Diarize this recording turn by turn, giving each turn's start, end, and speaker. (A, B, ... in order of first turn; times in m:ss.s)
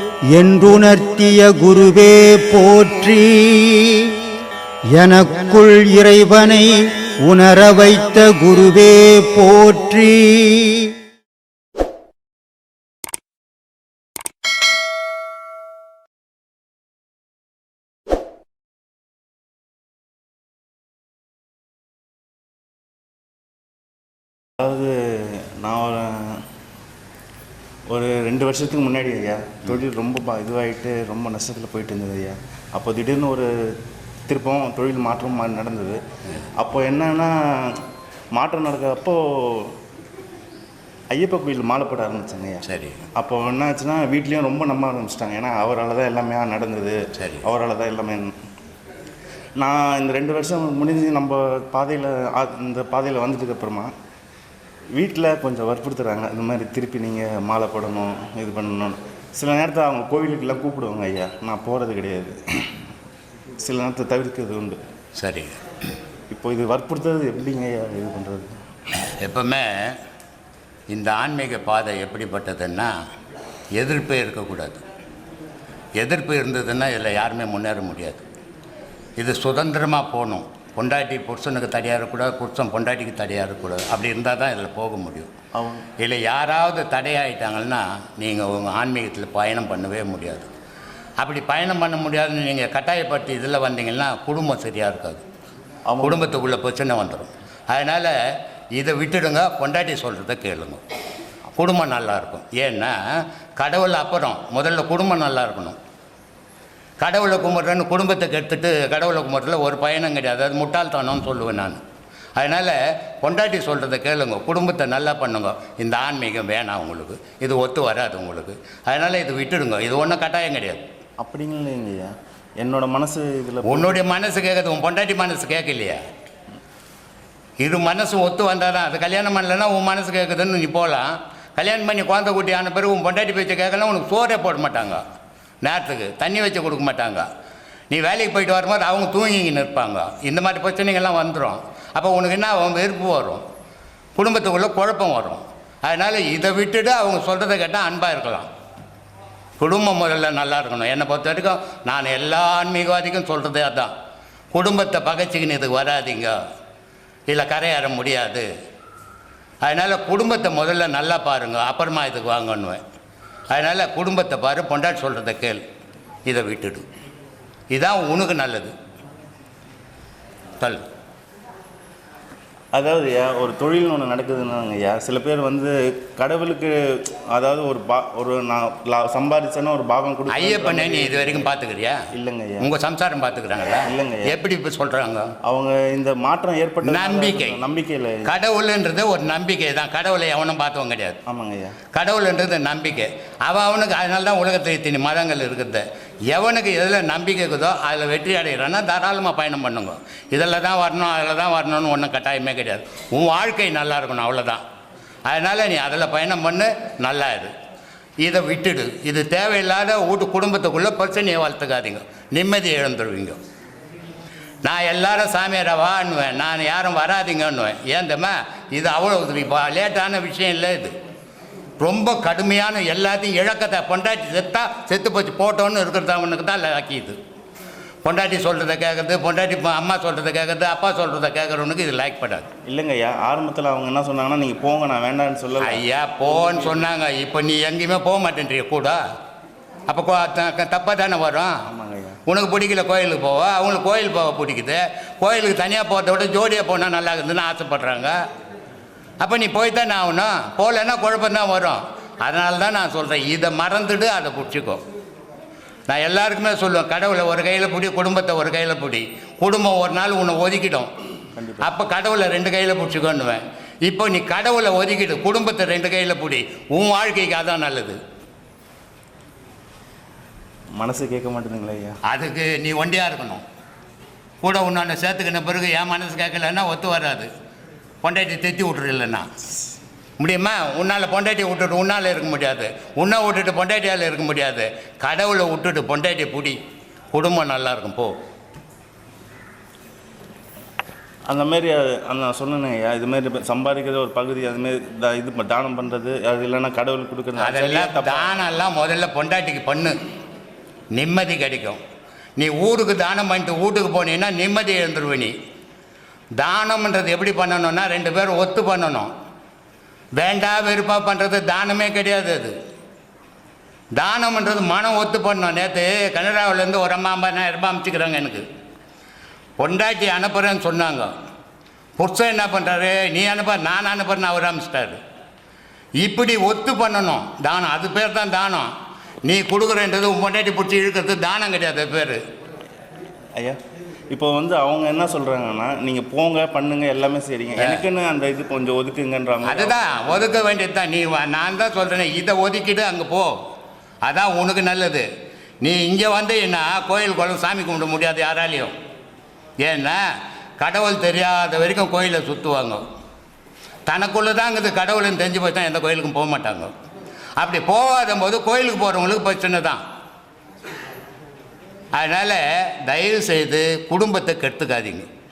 0:00.4-0:04.1 A
0:05.0-0:10.9 A
0:24.6-0:26.4 B
0:27.9-0:33.7 B
0:34.3-0:36.0 B
0:36.6-0:37.8 B
0:38.4-0:39.8 B
0:41.1-0:48.3 B
0:42.7-0:43.0 C
0:47.2-0:47.4 C
0:49.6-0:53.9 B
0:55.0-1:02.7 B
1:03.6-1:04.8 B
1:05.2-1:05.5 C
1:06.3-1:08.5 B
1:09.2-1:09.9 C
1:10.9-1:12.9 C
1:13.8-1:14.8 C
1:16.0-1:18.2 C
1:19.2-1:25.3 C
1:25.6-1:25.9 B
1:26.0-1:30.5 C
1:31.2-1:35.2 C
1:35.9-1:36.3 B
1:36.0-1:38.1 C
1:38.8-1:40.8 C
1:41.5-1:43.0 C
1:43.6-1:45.8 C
1:47.0-1:51.8 C
1:52.4-2:00.8 C
2:01.2-2:04.0 B
2:03.7-2:06.0 C
2:07.6-2:15.0 C
2:15.6-2:17.3 C
2:17.9-2:23.4 C
2:24.2-2:28.5 C
2:29.6-2:33.9 C
2:34.5-2:36.4 C
2:37.3-2:38.5 C
2:39.6-2:42.8 C
2:43.5-2:45.6 C
2:46.3-2:46.8 C
2:47.7-2:48.7 C
2:52.7-3:01.5 B
3:00.3-3:02.0 C
3:02.1-3:02.7 B
3:02.6-3:05.3 C
3:03.9-3:04.3 B
3:05.4-3:08.3 B
3:06.8-3:07.6 C
3:08.2-3:11.2 C
3:11.3-3:11.8 B
3:11.9-3:24.6 C
3:25.3-3:27.5 C
3:28.2-3:33.4 C
3:34.6-3:40.9 C
3:41.8-3:47.2 C
3:48.0-3:52.5 C
3:52.7-3:56.8 B
3:55.6-3:59.0 C
3:59.9-4:01.5 C
4:01.7-4:02.2 B
4:02.3-4:08.1 C
4:09.2-4:14.8 C
4:15.9-4:20.9 C
4:21.4-4:21.7 B
4:21.6-4:28.0 C
4:30.8-4:32.0 B
4:32.1-4:33.4 C
4:34.4-4:37.3 C
4:38.0-4:39.3 C
4:40.2-4:46.6 C
4:47.1-4:48.1 C
4:51.3-4:58.3 B
4:57.4-5:00.0 C
5:01.0-5:01.8 C
5:02.4-5:05.3 C
5:06.4-5:09.1 C
5:10.2-5:12.6 C
5:14.0-5:18.4 C
5:19.6-5:21.1 C
5:22.0-5:25.0 C
5:26.0-5:28.7 C
5:29.2-5:32.2 C
5:34.1-5:39.8 B
5:37.6-5:37.8 C
5:39.4-5:43.3 C
5:44.0-5:45.1 C
5:45.6-5:48.7 C
5:49.6-5:50.0 C
5:50.6-5:52.8 C
5:53.9-5:56.7 C
5:57.4-5:59.8 C
6:02.0-6:05.1 C